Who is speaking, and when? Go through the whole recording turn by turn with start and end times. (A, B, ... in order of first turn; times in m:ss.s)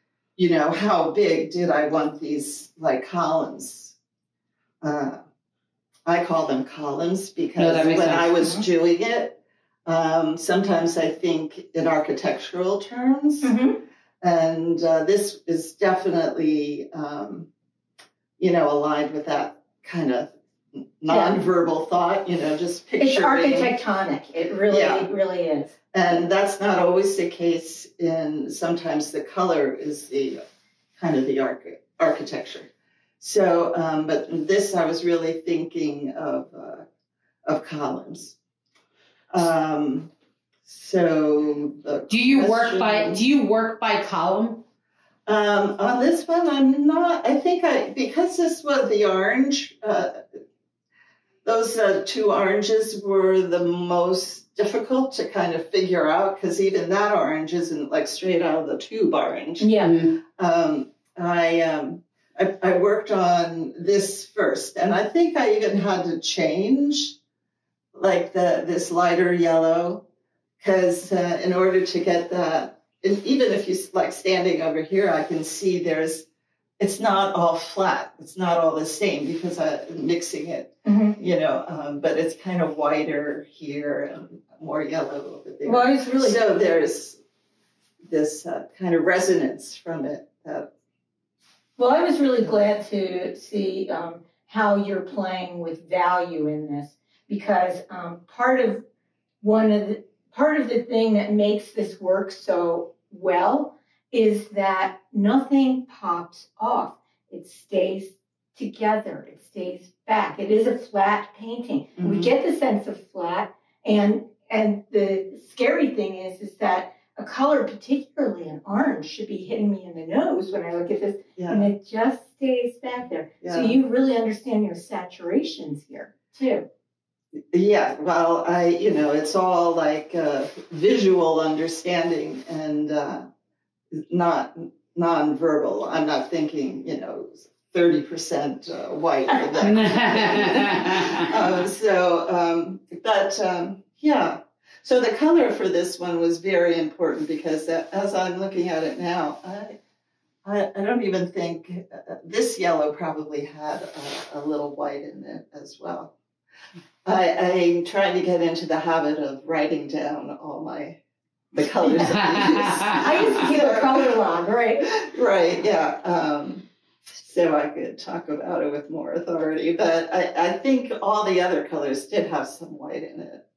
0:00.4-0:03.9 A
0:04.8-0:05.2 A
0:06.0-0:13.5 A
0:07.6-0:08.4 B
0:13.4-0:13.8 C
0:14.2-0:17.5 A
0:18.4-0:23.7 A
0:21.1-0:21.4 C
0:23.0-0:25.7 C
0:24.7-0:25.1 A
0:25.9-0:30.4 A
0:31.0-0:32.7 A
0:33.2-0:36.8 A
0:37.4-0:38.4 A
0:39.3-0:40.1 A
0:40.6-0:43.2 A
0:42.1-0:44.6 B
0:45.2-0:50.2 A
0:51.4-0:59.8 A
0:59.6-0:59.9 C
0:59.8-1:00.2 B
1:00.3-1:07.2 A
1:07.9-1:10.0 A
1:10.6-1:16.2 A
1:16.8-1:27.2 A
1:20.8-1:21.2 C
1:25.6-1:26.4 C
1:28.0-1:30.7 A
1:31.8-1:38.8 C
1:39.4-2:06.7 C
1:52.0-1:52.3 A
2:01.4-2:01.7 A
2:03.4-2:03.8 A
2:07.5-2:13.2 A
2:14.1-2:29.7 A
2:19.6-2:21.3 B
2:30.4-2:36.1 A
2:37.0-2:41.0 A
2:41.5-2:44.2 A
2:42.0-2:43.0 B
2:42.9-2:44.9 C
2:44.8-2:53.4 A